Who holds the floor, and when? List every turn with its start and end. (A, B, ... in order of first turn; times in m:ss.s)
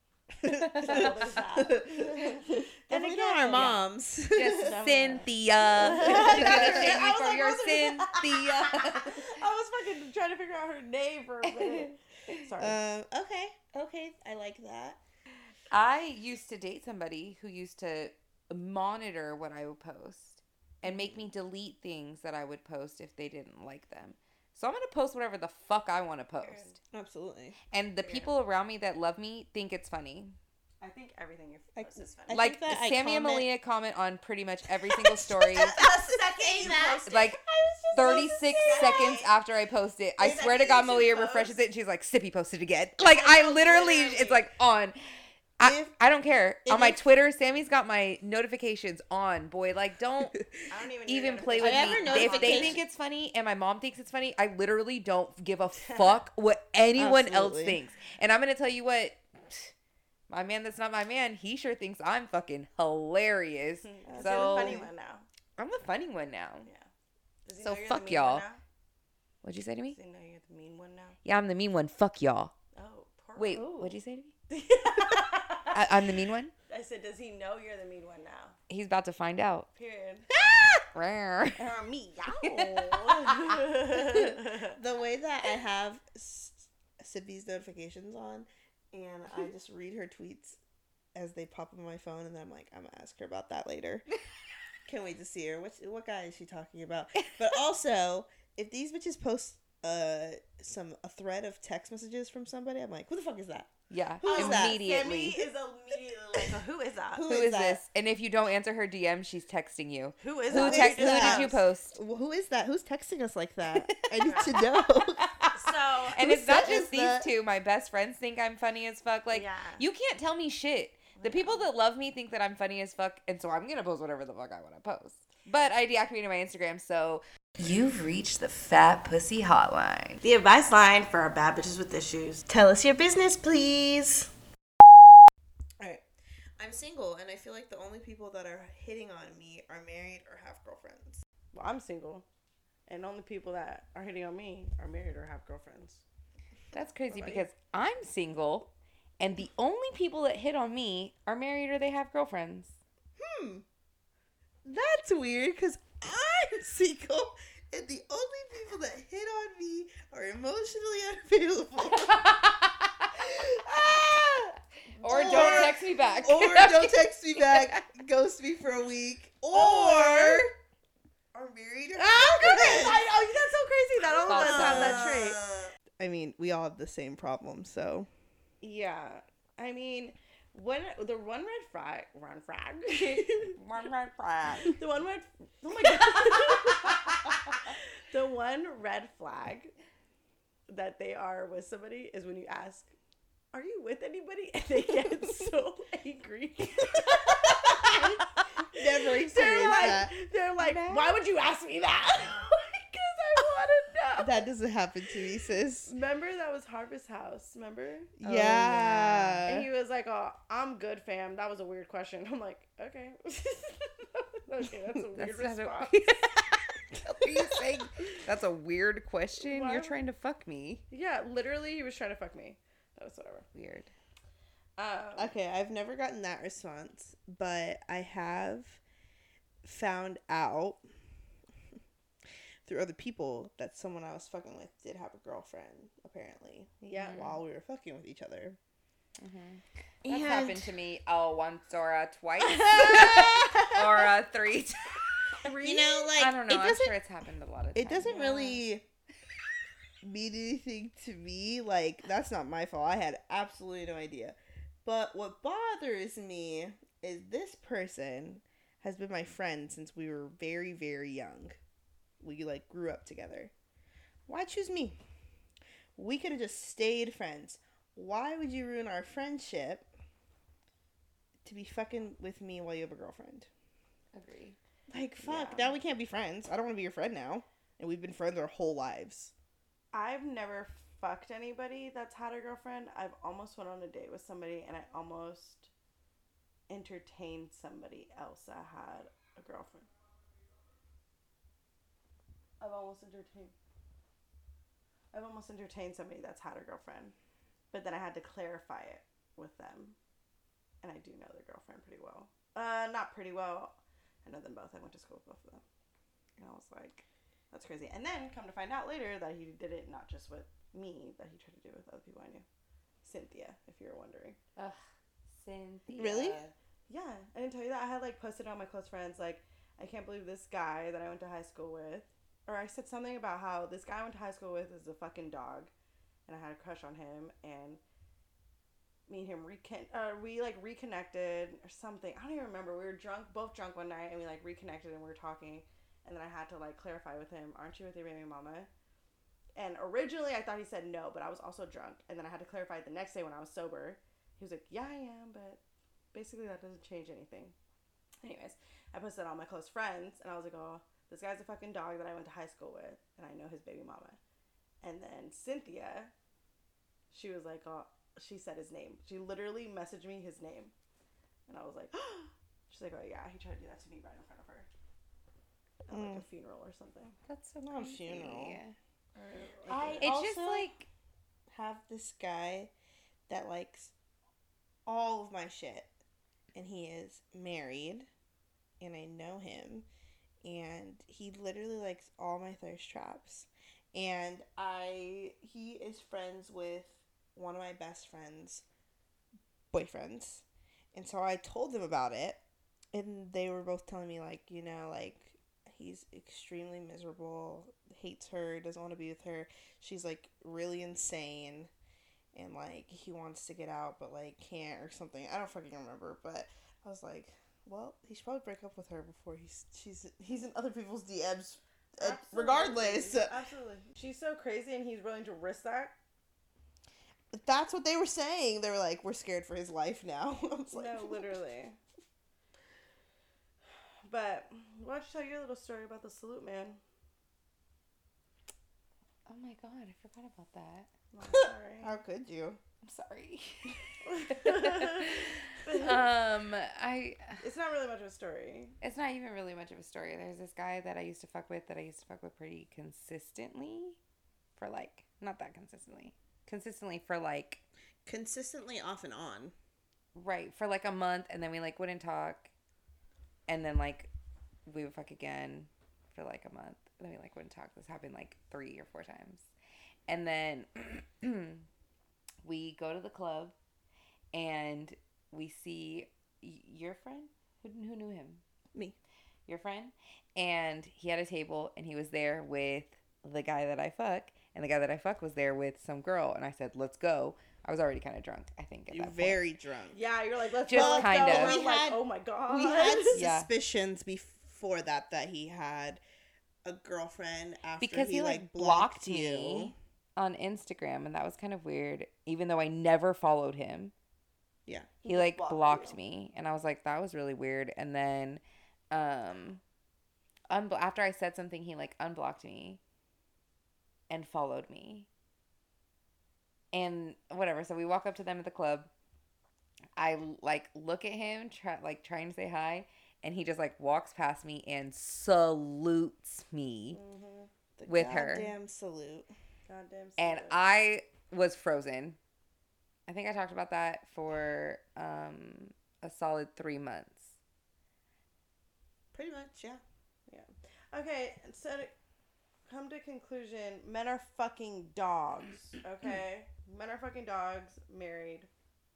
0:00.4-0:04.8 A
0:00.4-0:01.3 B
0:00.8-0:03.8 C
0:03.5-0:03.8 B
0:04.3-0:09.3 B
0:04.4-0:12.8 C
0:05.7-0:07.1 A
0:11.6-0:11.9 B
0:12.6-0:15.0 A
0:15.7-0:26.8 B
0:20.8-0:21.3 A
0:26.4-0:26.8 C
0:26.9-0:27.6 A
0:27.7-0:30.4 B
0:28.0-0:28.3 C
0:30.8-0:32.4 C
0:31.8-0:33.5 A
0:32.3-0:35.8 B
0:35.5-0:39.3 A
0:35.5-0:39.3 C
0:37.0-0:37.4 B
0:37.9-0:45.0 B
0:40.2-0:41.6 C
0:43.0-0:44.5 C
0:45.6-0:50.4 B
0:45.6-0:45.9 A
0:46.6-0:47.0 A
0:50.7-0:52.8 C
0:51.1-0:59.7 B
0:51.6-0:52.8 A
0:55.8-0:56.2 C
0:57.0-0:57.8 A
1:00.3-1:04.9 B
1:03.8-1:05.3 C
1:04.1-1:04.9 A
1:05.6-1:06.7 B
1:07.4-1:08.6 C
1:07.6-1:08.4 B
1:09.4-1:10.0 B
1:09.9-1:11.2 C
1:11.2-1:12.5 B
1:12.7-1:14.0 C
1:13.4-1:14.3 B
1:14.5-1:15.8 C
1:15.7-1:16.5 B
1:16.7-1:18.6 C
1:18.7-1:19.7 B
1:19.8-1:20.3 C
1:20.4-1:21.6 B
1:21.6-1:24.8 C
1:22.4-1:23.6 B
1:23.9-1:30.6 A
1:31.1-1:34.1 A
1:34.9-1:44.8 A
1:43.9-1:45.4 B
1:44.2-1:47.2 C
1:47.1-1:47.8 A
1:47.3-1:52.0 B
1:50.2-1:51.6 C
1:50.5-1:55.3 A
1:53.8-2:10.2 B
1:54.2-1:54.6 C
1:55.5-1:56.2 C
1:56.0-1:57.3 A
1:59.3-1:59.8 C
2:01.2-2:01.7 C
2:10.2-2:12.4 C
2:12.5-2:14.3 A
2:15.8-2:16.0 A
2:16.6-2:21.2 A
2:21.5-2:22.2 C
2:22.9-2:26.0 C
2:26.7-2:32.8 B
2:27.1-2:27.4 C
2:33.2-2:33.6 A
2:34.6-2:42.4 A
2:42.0-2:43.1 B
2:43.1-2:44.3 A
2:45.0-2:47.9 B
2:45.0-2:45.8 C
2:45.0-2:50.5 A
2:49.5-2:50.4 C
2:51.3-2:53.1 A
2:52.0-2:55.4 C
2:54.1-2:58.1 A
2:54.2-2:55.2 B
2:58.6-3:03.6 C
3:03.6-3:04.7 B
3:04.6-3:09.7 C
3:10.7-3:12.9 C
3:13.5-3:24.4 C
3:17.8-3:20.1 A
3:19.5-3:20.0 B
3:20.6-3:21.2 B
3:24.2-3:25.9 A
3:25.9-3:28.6 C
3:28.2-3:29.7 A
3:28.2-3:29.4 B
3:29.4-3:36.3 C
3:35.1-3:40.8 B
3:39.4-3:40.0 C
3:40.9-3:43.5 C
3:43.5-3:43.9 B
3:44.8-3:45.4 C
3:45.2-3:48.8 A
3:49.6-3:50.8 A
3:52.6-3:58.6 A
3:56.9-3:57.2 C
3:56.9-3:57.4 B
3:59.2-4:05.4 B
4:00.0-4:00.8 A
4:02.6-4:03.6 C
4:05.3-4:06.1 C
4:05.6-4:06.9 A
4:06.2-4:08.6 B
4:07.8-4:08.8 A
4:10.0-4:21.6 A
4:22.2-4:23.5 A
4:24.3-4:25.0 A
4:26.0-4:29.9 A
4:31.4-4:33.5 A
4:34.1-4:34.6 B
4:34.9-4:39.3 A
4:35.2-4:35.8 C
4:39.9-4:45.7 C
4:46.7-4:49.9 C
4:52.6-4:53.6 C
4:55.1-4:57.1 C
4:57.7-5:00.0 C
5:00.8-5:05.6 C
5:06.4-5:12.4 C
5:13.0-5:14.4 C
5:14.6-5:16.5 B
5:15.9-5:16.4 A
5:16.9-5:25.7 C
5:26.3-5:27.8 C
5:29.1-5:38.7 C
5:39.6-5:45.6 C
5:46.1-5:47.6 C
5:48.2-5:54.2 C
5:54.8-5:56.1 C
5:57.1-6:00.7 C
6:01.5-6:04.7 C
6:05.9-6:07.2 C
6:05.9-6:06.2 A
6:07.3-6:08.8 B
6:07.6-6:08.6 A
6:09.2-6:10.1 C
6:09.7-6:10.7 A
6:10.0-6:10.9 B
6:11.5-6:12.7 A
6:13.3-6:13.9 A
6:14.9-6:15.9 A
6:16.5-6:18.1 A
6:18.8-6:19.9 A
6:20.4-6:28.6 A
6:29.7-6:32.4 A
6:32.9-6:41.7 A
6:42.3-6:53.4 A
6:52.0-6:55.9 C
6:57.3-7:01.3 A
7:00.7-7:01.8 C
7:04.0-7:06.8 C
7:09.2-7:10.9 B
7:11.1-7:12.0 C
7:11.2-7:12.6 A
7:12.8-7:17.4 B
7:14.0-7:16.1 C
7:17.4-7:18.8 C
7:18.8-7:24.0 B
7:24.6-7:27.6 B
7:28.1-7:29.5 A
7:30.2-7:32.5 B
7:33.5-7:34.1 B
7:34.7-7:39.5 B
7:40.1-7:41.6 B
7:42.4-7:43.5 B
7:44.3-7:48.4 B
7:49.5-7:59.4 B
7:58.9-8:00.0 A
7:59.9-8:03.2 C
8:00.7-8:01.6 B
8:00.7-8:06.0 A
8:03.1-8:03.5 B
8:06.6-8:09.7 A
8:07.8-8:13.9 B
8:14.7-8:16.0 A
8:15.1-8:19.6 B
8:20.5-8:22.8 B
8:24.1-8:25.1 B
8:26.7-8:28.9 B
8:30.0-8:37.0 B
8:36.9-8:37.5 C
8:37.8-8:39.3 A
8:37.9-8:38.5 B
8:39.7-8:40.6 C
8:40.2-8:42.2 B
8:43.1-8:47.4 B
8:49.1-8:49.8 A
8:50.3-8:51.9 C
8:52.7-8:58.5 C